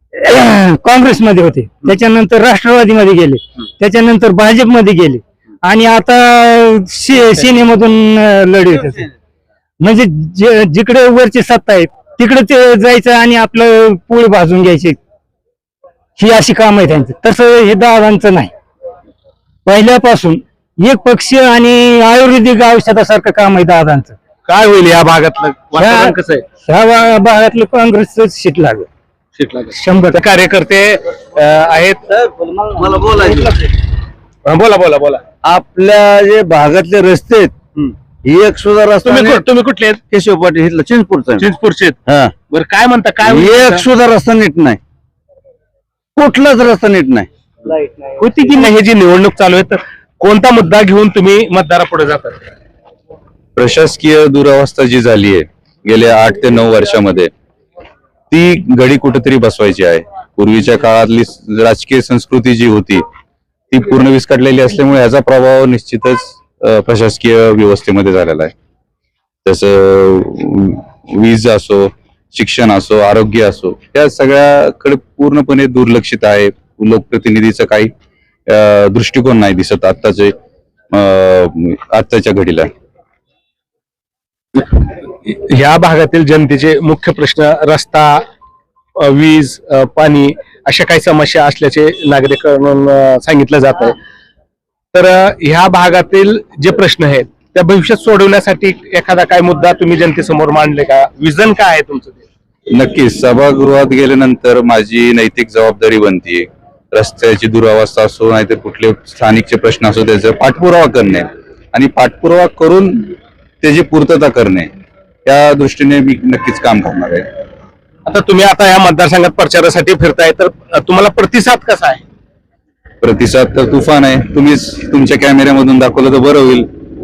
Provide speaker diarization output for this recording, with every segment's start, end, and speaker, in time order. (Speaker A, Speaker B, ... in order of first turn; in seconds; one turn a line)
Speaker A: 0.2-9.1
Speaker A: 9.8-15.0
Speaker A: 16.2-18.5
Speaker A: 19.7-24.1
Speaker B: 24.5-26.4
Speaker A: 25.8-26.1
Speaker A: 26.7-28.9
Speaker B: 29.4-32.2
Speaker A: 29.8-30.2
Speaker B: 32.8-33.5
Speaker B: 34.5-35.2
Speaker C: 35.5-37.5
Speaker C: 38.3-39.4
Speaker B: 39.0-40.0
Speaker C: 40.1-41.5
Speaker B: 41.4-42.0
Speaker B: 42.5-43.9
Speaker C: 43.2-44.6
Speaker C: 46.2-47.0
Speaker B: 48.2-52.4
Speaker D: 53.6-57.3
Speaker D: 58.3-63.0
Speaker D: 63.7-68.5
Speaker D: 69.5-77.9
Speaker D: 78.5-80.3
Speaker D: 80.9-82.7
Speaker B: 84.6-88.2
Speaker B: 89.0-94.0
Speaker B: 94.9-102.2
Speaker D: 102.7-114.7
Speaker D: 115.2-117.2
Speaker B: 118.1-122.0
Speaker D: 123.0-126.7